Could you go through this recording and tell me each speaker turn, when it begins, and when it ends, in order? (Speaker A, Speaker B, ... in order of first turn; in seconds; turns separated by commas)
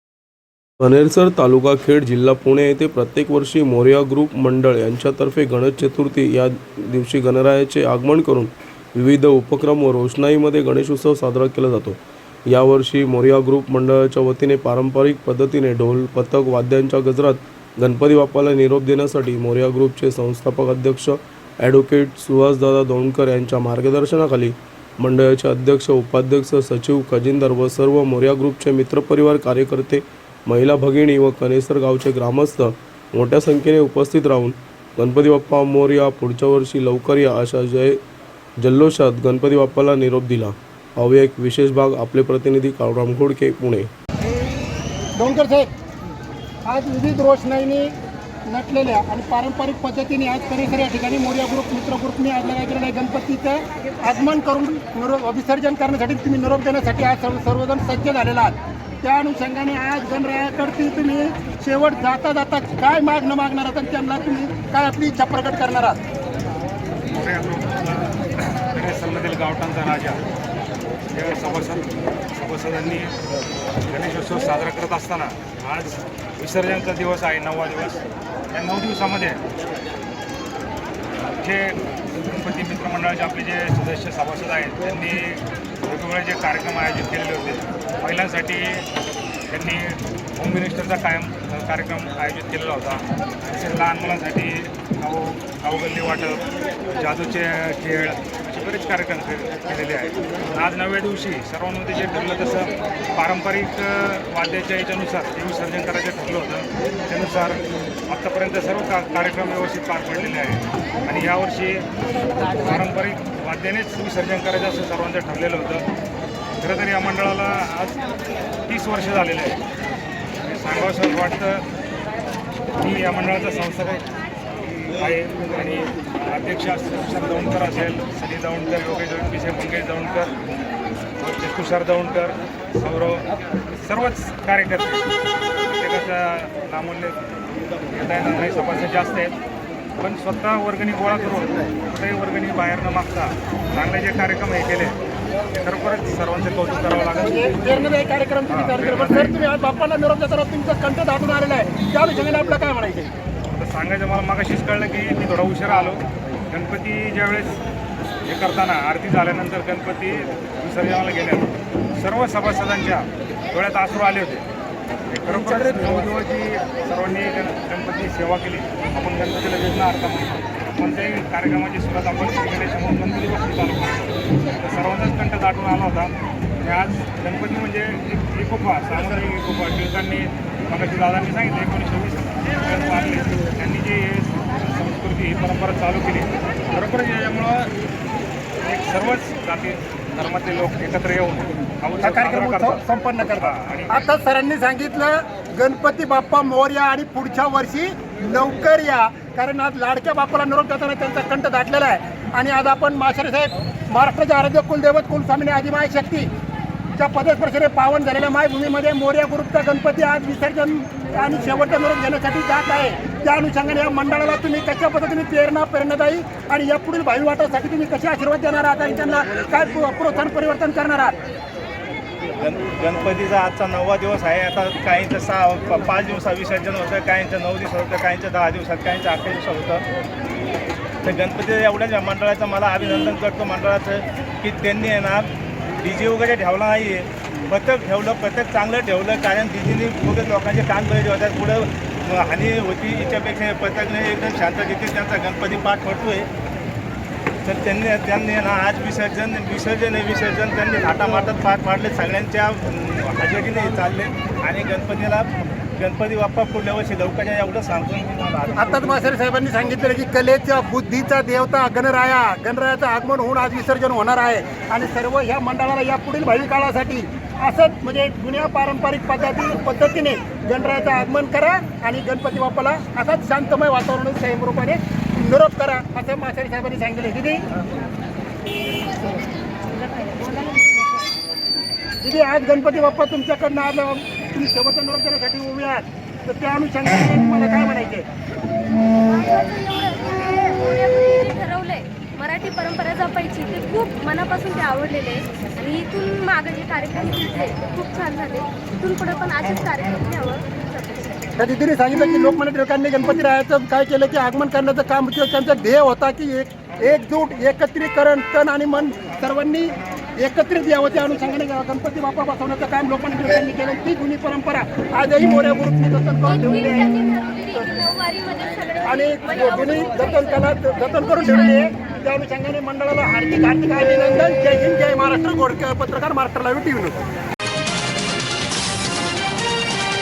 Speaker A: 0.8-12.0, Speaker A: 12.5-38.0, Speaker A: 38.6-43.9, Speaker B: 45.2-45.7, Speaker B: 46.7-47.9, Speaker B: 48.5-66.0, Speaker C: 67.1-70.2, Speaker C: 71.1-73.2, Speaker C: 73.9-79.4, Speaker C: 81.4-88.9, Speaker C: 89.5-111.9, Speaker C: 112.5-115.8, Speaker C: 116.6-118.0, Speaker C: 118.7-119.6, Speaker C: 120.4-121.7, Speaker C: 122.8-124.0, Speaker C: 124.9-130.3, Speaker C: 131.2-133.3, Speaker C: 133.8-135.1, Speaker C: 135.6-137.2, Speaker C: 137.9-139.4, Speaker C: 140.0-144.9, Speaker C: 145.5-147.6, Speaker B: 147.2-153.1, Speaker C: 148.5-149.4, Speaker C: 153.5-156.0, Speaker C: 156.5-157.6, Speaker C: 158.3-164.4, Speaker C: 165.1-187.7, Speaker B: 165.5-165.9, Speaker C: 188.6-192.8, Speaker B: 192.0-206.3, Speaker C: 193.4-193.9, Speaker B: 207.0-221.2, Speaker D: 222.4-229.8, Speaker D: 231.0-246.3, Speaker D: 247.4-259.1, Speaker B: 258.5-277.4, Speaker B: 282.0-288.1, Speaker E: 289.0-301.3, Speaker B: 301.4-317.0, Speaker E: 316.3-321.5, Speaker B: 317.6-317.8, Speaker B: 318.8-327.0